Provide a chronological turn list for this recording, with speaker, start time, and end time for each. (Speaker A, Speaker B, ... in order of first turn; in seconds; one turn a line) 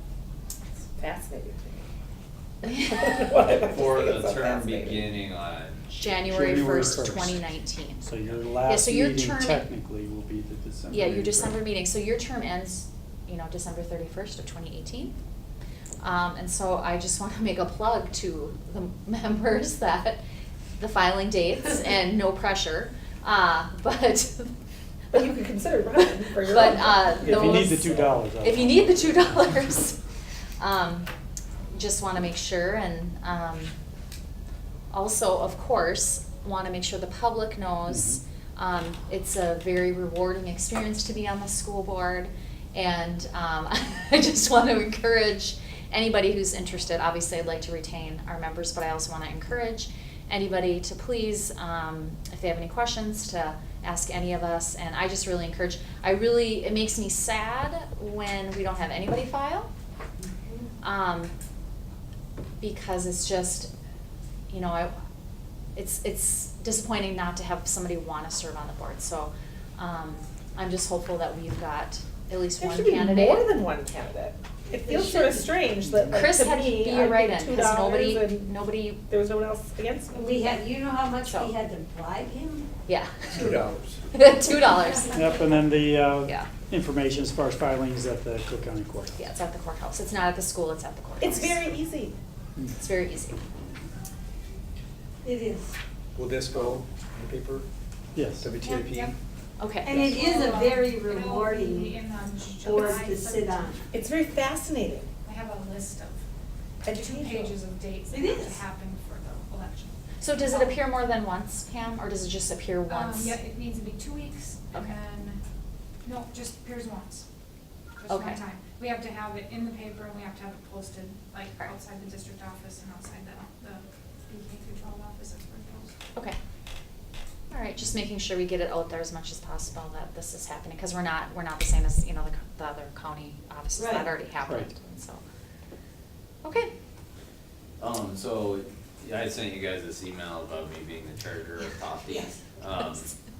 Speaker A: 0.8-1.9
Speaker A: 2.6-5.1
Speaker B: 3.4-6.1
Speaker C: 5.9-8.0
Speaker D: 6.3-7.5
Speaker D: 8.0-11.6
Speaker C: 8.6-9.6
Speaker C: 10.9-15.2
Speaker C: 16.0-20.2
Speaker C: 20.8-24.5
Speaker A: 25.1-27.4
Speaker C: 26.4-30.0
Speaker D: 27.2-29.2
Speaker E: 27.5-28.1
Speaker C: 30.6-31.1
Speaker C: 31.7-33.7
Speaker C: 34.9-59.7
Speaker D: 37.9-38.2
Speaker F: 60.3-60.7
Speaker C: 60.8-61.3
Speaker C: 62.6-63.7
Speaker C: 64.5-64.9
Speaker C: 65.8-73.5
Speaker A: 72.6-78.5
Speaker F: 74.8-75.5
Speaker D: 75.9-76.2
Speaker C: 76.1-79.0
Speaker A: 79.1-80.7
Speaker F: 80.1-82.7
Speaker C: 81.2-81.5
Speaker C: 82.9-83.6
Speaker E: 83.3-84.0
Speaker C: 84.1-85.3
Speaker F: 84.8-85.4
Speaker D: 85.1-89.2
Speaker C: 89.2-91.6
Speaker A: 91.2-92.1
Speaker C: 92.8-93.4
Speaker F: 95.2-95.8
Speaker E: 96.2-97.7
Speaker D: 98.2-98.5
Speaker E: 98.4-99.2
Speaker G: 98.5-99.2
Speaker C: 99.6-100.1
Speaker F: 99.8-102.0
Speaker G: 100.0-103.9
Speaker F: 102.6-103.9
Speaker A: 103.9-105.1
Speaker G: 105.2-106.2
Speaker A: 106.8-107.6
Speaker G: 106.9-110.7
Speaker F: 108.1-108.6
Speaker C: 110.2-113.4
Speaker G: 112.9-115.4
Speaker G: 116.0-117.2
Speaker G: 118.0-125.9
Speaker C: 118.1-118.4
Speaker C: 127.5-135.2
Speaker F: 133.8-134.1
Speaker C: 136.4-136.7
Speaker B: 137.8-143.1
Speaker F: 142.1-142.4